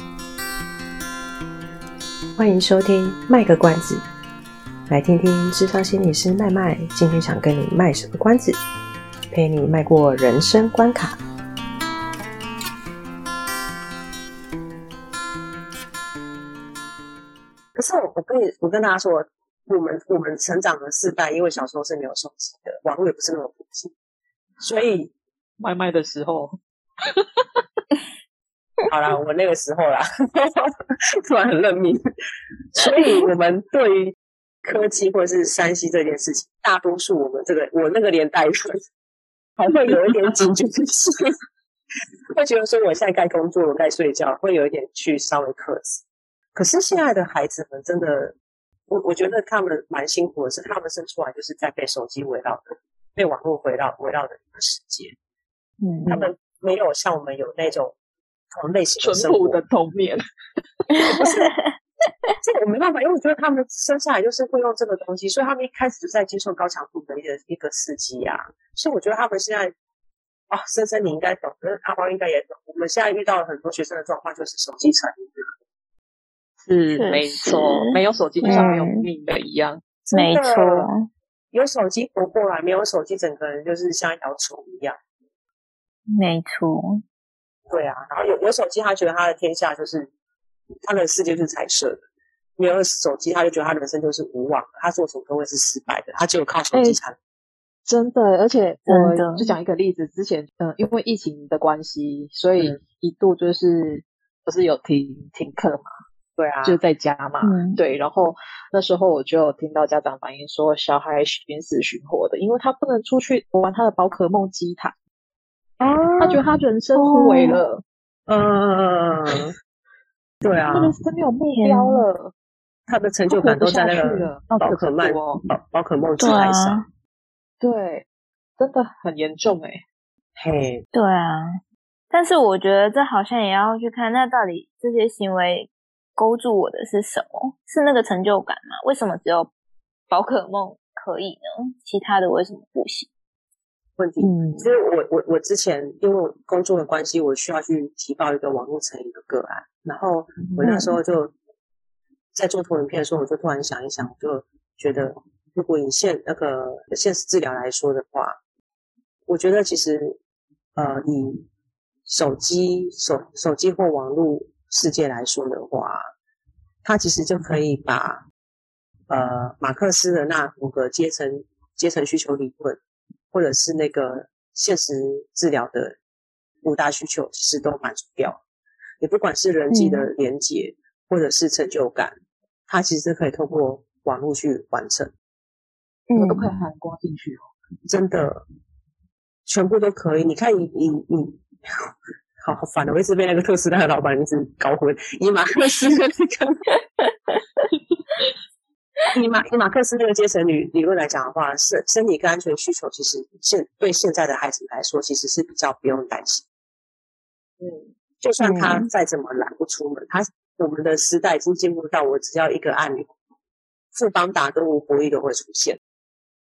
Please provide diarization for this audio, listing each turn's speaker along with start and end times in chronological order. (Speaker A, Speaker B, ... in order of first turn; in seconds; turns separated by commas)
Speaker A: 2.4-4.0, Speaker A: 4.9-8.6, Speaker A: 9.3-11.2, Speaker B: 17.8-23.9, Speaker B: 24.6-25.1, Speaker C: 25.6-26.6, Speaker C: 27.1-27.4, Speaker B: 28.9-30.7, Speaker B: 31.3-32.0, Speaker B: 32.7-38.8, Speaker B: 39.6-41.3, Speaker B: 42.3-46.0, Speaker B: 46.5-48.4, Speaker B: 48.9-55.1, Speaker D: 55.8-56.2, Speaker C: 56.0-56.2, Speaker B: 56.1-57.9, Speaker B: 58.5-59.6, Speaker C: 59.0-60.2, Speaker D: 61.0-61.7, Speaker B: 61.1-61.5, Speaker B: 62.4-69.7, Speaker B: 70.5-75.5, Speaker C: 76.6-79.8, Speaker D: 76.9-79.0, Speaker B: 80.0-80.9, Speaker D: 80.1-81.1, Speaker B: 81.5-85.0, Speaker D: 86.1-87.0, Speaker B: 87.7-90.1, Speaker B: 90.8-92.0, Speaker B: 92.6-97.2, Speaker C: 96.7-97.0, Speaker C: 97.9-105.9, Speaker D: 98.9-99.5, Speaker B: 106.4-106.8, Speaker C: 106.6-114.9, Speaker D: 107.4-107.8, Speaker B: 115.8-116.4, Speaker C: 116.2-117.8, Speaker D: 117.0-117.6, Speaker B: 118.3-119.5, Speaker B: 120.4-121.0, Speaker C: 120.7-122.3, Speaker D: 121.5-122.1, Speaker B: 122.9-126.8, Speaker C: 123.3-125.4, Speaker D: 126.2-126.9, Speaker C: 127.6-128.1, Speaker C: 128.6-129.8, Speaker B: 130.4-130.8, Speaker D: 130.9-131.6, Speaker D: 132.1-139.5, Speaker D: 140.1-143.1, Speaker B: 144.0-151.3, Speaker C: 144.2-144.6, Speaker B: 152.3-158.4, Speaker B: 159.3-160.2, Speaker B: 160.8-161.4, Speaker B: 162.1-166.0, Speaker B: 166.8-168.2, Speaker B: 169.1-172.8, Speaker B: 173.3-176.0, Speaker B: 176.6-178.4, Speaker B: 179.0-182.1, Speaker D: 179.7-180.1, Speaker B: 182.7-185.1, Speaker D: 186.1-186.5, Speaker C: 186.2-187.5, Speaker B: 187.9-188.4, Speaker B: 189.5-191.9, Speaker B: 192.4-196.5, Speaker D: 197.0-197.7, Speaker B: 199.1-206.4, Speaker C: 207.6-207.9, Speaker B: 208.2-213.1, Speaker D: 208.4-208.9, Speaker B: 213.9-215.8